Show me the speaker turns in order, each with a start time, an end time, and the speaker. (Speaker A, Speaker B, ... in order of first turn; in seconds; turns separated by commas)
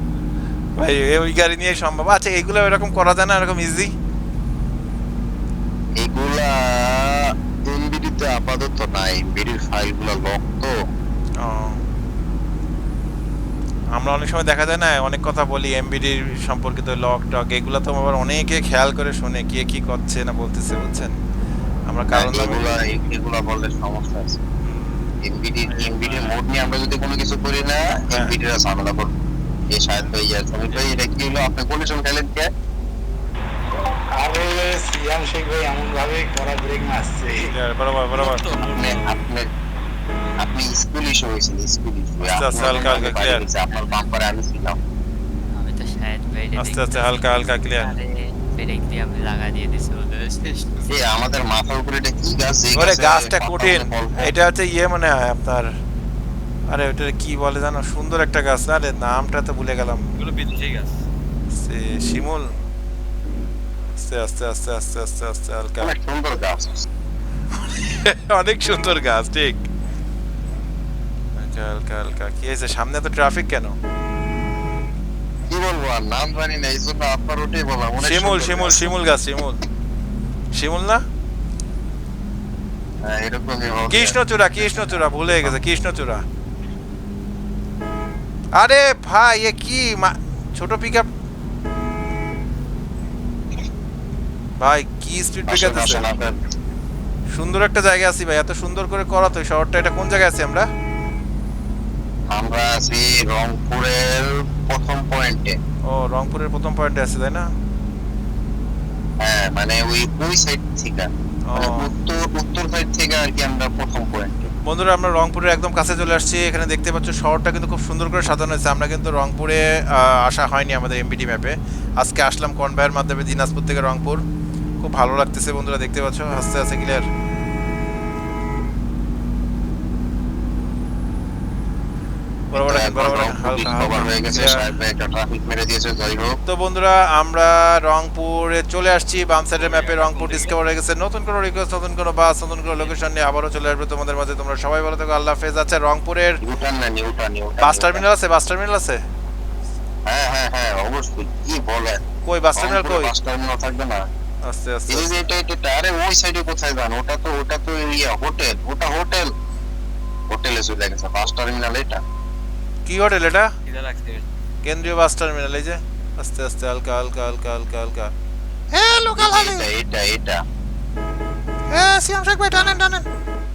Speaker A: 0.8-3.9, Speaker B: 6.0-10.7, Speaker A: 11.4-11.8, Speaker A: 13.9-21.1, Speaker A: 21.9-22.8, Speaker B: 22.1-24.4, Speaker C: 24.6-26.4, Speaker B: 25.2-29.1, Speaker B: 29.7-32.5, Speaker C: 30.0-30.9, Speaker D: 34.1-37.5, Speaker A: 37.5-38.4, Speaker C: 38.1-39.2, Speaker B: 38.6-39.5, Speaker B: 40.4-44.8, Speaker A: 42.2-43.4, Speaker E: 45.5-51.0, Speaker A: 46.6-48.0, Speaker B: 50.9-54.4, Speaker A: 52.8-55.7, Speaker A: 56.7-60.0, Speaker C: 60.2-61.0, Speaker A: 61.5-62.5, Speaker A: 64.0-65.9, Speaker B: 65.8-66.9, Speaker A: 67.7-69.6, Speaker A: 71.4-73.8, Speaker B: 75.5-78.9, Speaker A: 78.0-79.6, Speaker A: 80.5-81.0, Speaker B: 83.0-85.5, Speaker A: 83.9-86.2, Speaker A: 88.6-91.1, Speaker A: 94.6-96.0, Speaker B: 95.5-96.4, Speaker A: 97.3-100.7, Speaker B: 102.3-105.6, Speaker A: 105.9-107.5, Speaker B: 109.2-114.5, Speaker A: 111.5-111.9, Speaker A: 114.7-124.2, Speaker A: 124.8-127.1, Speaker A: 132.5-134.6, Speaker B: 132.5-136.4, Speaker A: 136.5-146.4, Speaker C: 139.5-140.6, Speaker B: 146.4-148.1, Speaker A: 147.6-149.0, Speaker B: 150.1-152.0, Speaker A: 152.2-153.1, Speaker B: 152.6-154.0, Speaker A: 154.4-155.1, Speaker B: 154.9-159.3, Speaker B: 160.3-162.0, Speaker A: 162.9-163.5, Speaker C: 163.7-164.2, Speaker A: 164.6-168.1, Speaker F: 168.7-169.7, Speaker B: 169.0-170.4, Speaker F: 171.7-173.1